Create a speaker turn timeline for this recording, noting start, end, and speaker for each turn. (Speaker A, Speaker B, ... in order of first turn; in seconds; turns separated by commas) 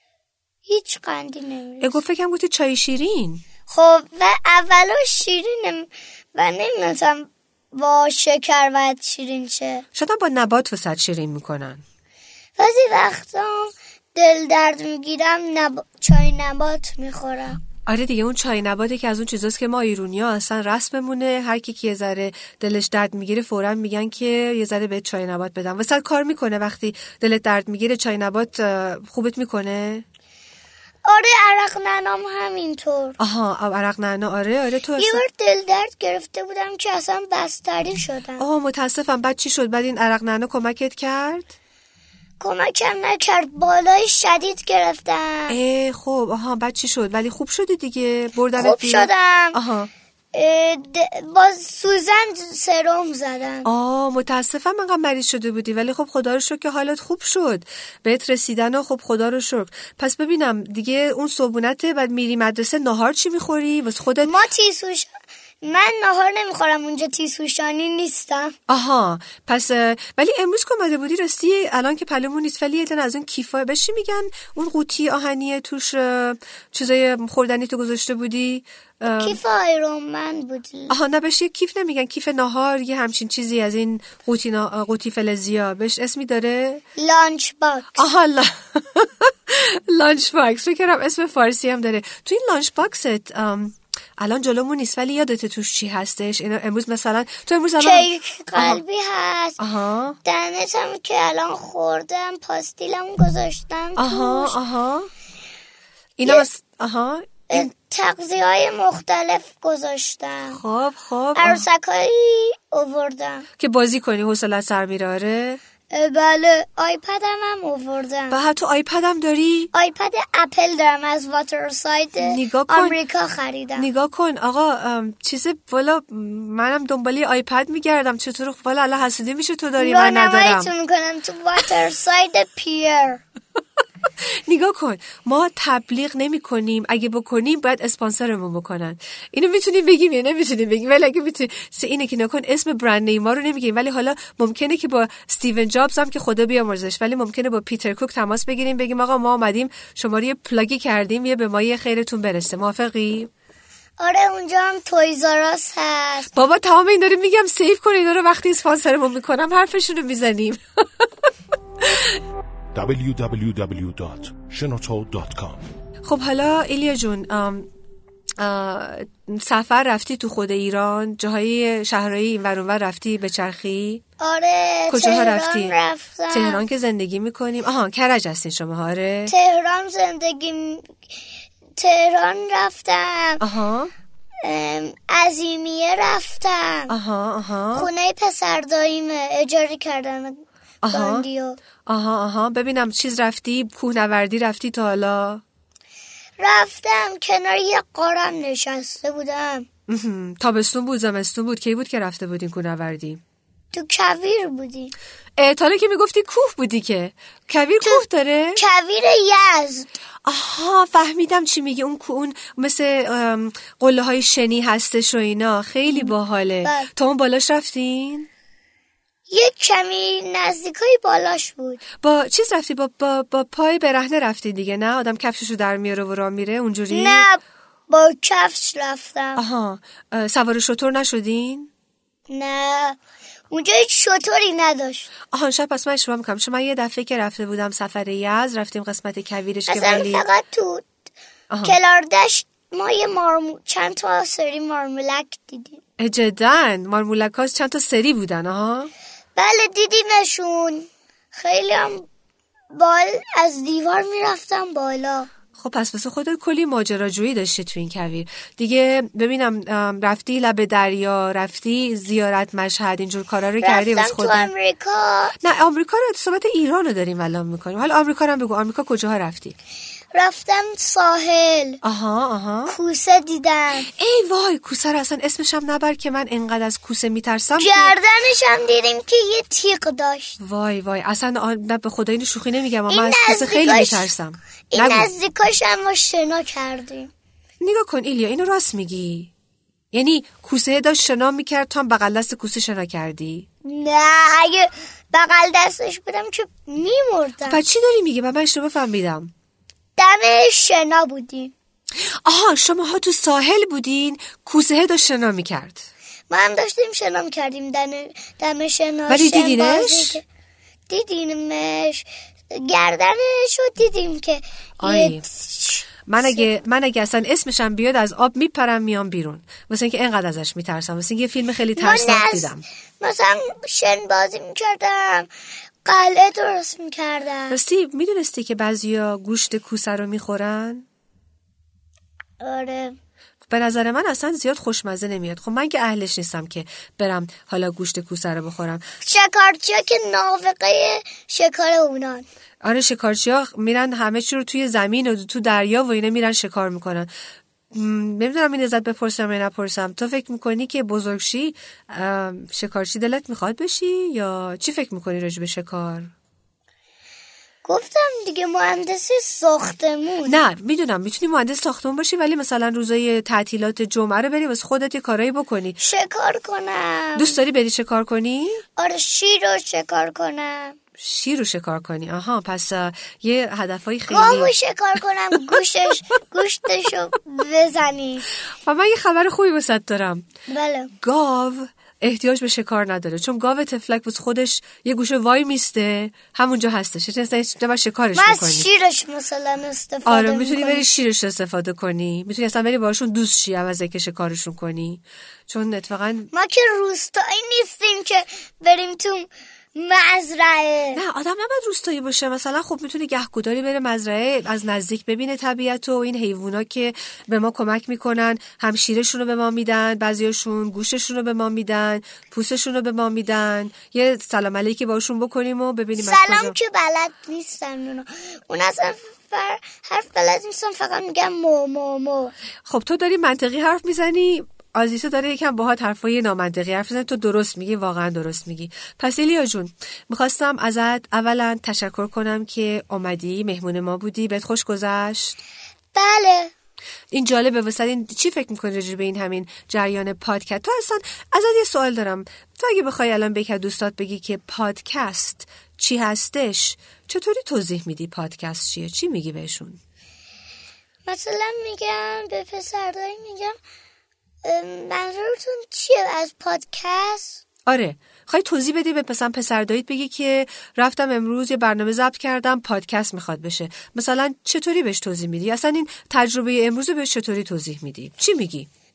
Speaker A: 0.7-2.0, Speaker B: 1.8-3.4, Speaker A: 3.7-9.8, Speaker B: 9.9-11.8, Speaker A: 12.6-17.6, Speaker B: 17.9-30.1, Speaker A: 31.1-33.2, Speaker B: 33.2-35.2, Speaker A: 35.0-38.4, Speaker B: 38.4-41.5, Speaker A: 42.4-45.6, Speaker B: 45.5-49.9, Speaker A: 48.6-49.6, Speaker A: 50.3-53.7, Speaker B: 53.6-64.3, Speaker A: 64.2-68.5, Speaker B: 68.7-79.4, Speaker A: 79.1-81.0, Speaker B: 80.9-86.8, Speaker A: 87.0-88.1, Speaker B: 88.0-98.8, Speaker A: 97.8-99.6, Speaker B: 99.6-100.2, Speaker A: 100.2-104.6, Speaker B: 104.0-105.1, Speaker B: 106.2-107.7, Speaker A: 107.5-110.6, Speaker B: 110.5-111.6, Speaker A: 111.4-113.5, Speaker B: 113.6-115.6, Speaker A: 115.9-118.4, Speaker B: 118.3-119.7, Speaker A: 119.7-123.9, Speaker B: 122.2-123.0, Speaker B: 123.8-130.7, Speaker A: 129.8-133.2, Speaker B: 134.5-153.3, Speaker A: 154.0-156.3, Speaker B: 156.3-161.1, Speaker B: 161.8-162.2, Speaker C: 162.8-165.6, Speaker B: 166.1-167.7, Speaker B: 168.4-174.0, Speaker A: 174.2-176.6, Speaker B: 174.9-175.8, Speaker B: 176.3-179.3, Speaker A: 179.3-181.0, Speaker A: 181.8-183.4, Speaker B: 183.4-183.9, Speaker A: 184.4-186.9, Speaker B: 186.9-187.9, Speaker A: 187.8-191.6, Speaker B: 190.8-191.3, Speaker B: 191.8-195.4, Speaker A: 196.4-199.7, Speaker B: 199.9-203.2, Speaker A: 203.7-204.9, Speaker B: 205.4-208.6, Speaker A: 208.6-210.0, Speaker B: 210.3-218.3, Speaker A: 215.9-216.9, Speaker A: 219.3-221.8, Speaker B: 222.0-227.3, Speaker A: 226.9-229.4, Speaker B: 229.4-231.7, Speaker A: 232.3-233.0, Speaker A: 233.5-235.1, Speaker B: 235.3-240.3, Speaker A: 239.7-240.9, Speaker B: 241.5-241.8, Speaker A: 241.6-245.8, Speaker B: 246.0-248.9, Speaker A: 249.4-252.1, Speaker A: 252.7-255.3, Speaker B: 255.6-264.5, Speaker A: 263.6-265.4, Speaker B: 265.4-269.6, Speaker A: 270.1-271.8, Speaker B: 271.8-272.8, Speaker A: 272.7-273.9, Speaker B: 274.0-278.0, Speaker A: 277.6-280.4, Speaker B: 280.4-285.1, Speaker A: 282.9-284.1, Speaker A: 284.7-287.1, Speaker B: 287.6-289.3, Speaker B: 289.9-293.5, Speaker A: 293.6-297.6, Speaker B: 297.5-299.3, Speaker A: 300.0-301.5, Speaker B: 302.0-305.9, Speaker A: 306.3-310.2, Speaker B: 309.1-310.2, Speaker A: 310.9-316.4, Speaker B: 314.8-315.2, Speaker B: 316.1-322.6, Speaker A: 321.8-325.3, Speaker A: 325.9-327.6, Speaker B: 327.5-330.9, Speaker A: 332.4-333.0, Speaker B: 333.5-338.8, Speaker A: 339.0-342.3, Speaker B: 342.6-347.1, Speaker B: 347.7-356.1, Speaker A: 357.6-360.4, Speaker B: 360.3-365.8, Speaker A: 365.8-367.4, Speaker B: 367.2-368.6, Speaker A: 368.8-370.8, Speaker B: 371.0-374.5, Speaker A: 374.1-378.3, Speaker B: 378.6-380.3, Speaker A: 380.5-380.9, Speaker B: 381.0-388.7, Speaker A: 388.1-390.9, Speaker B: 390.1-396.3, Speaker A: 396.3-401.0, Speaker B: 400.9-416.6, Speaker A: 416.0-422.3, Speaker B: 422.7-435.4, Speaker A: 435.9-436.5, Speaker B: 437.1-449.8, Speaker A: 451.1-453.6, Speaker A: 454.4-457.4, Speaker B: 457.7-468.7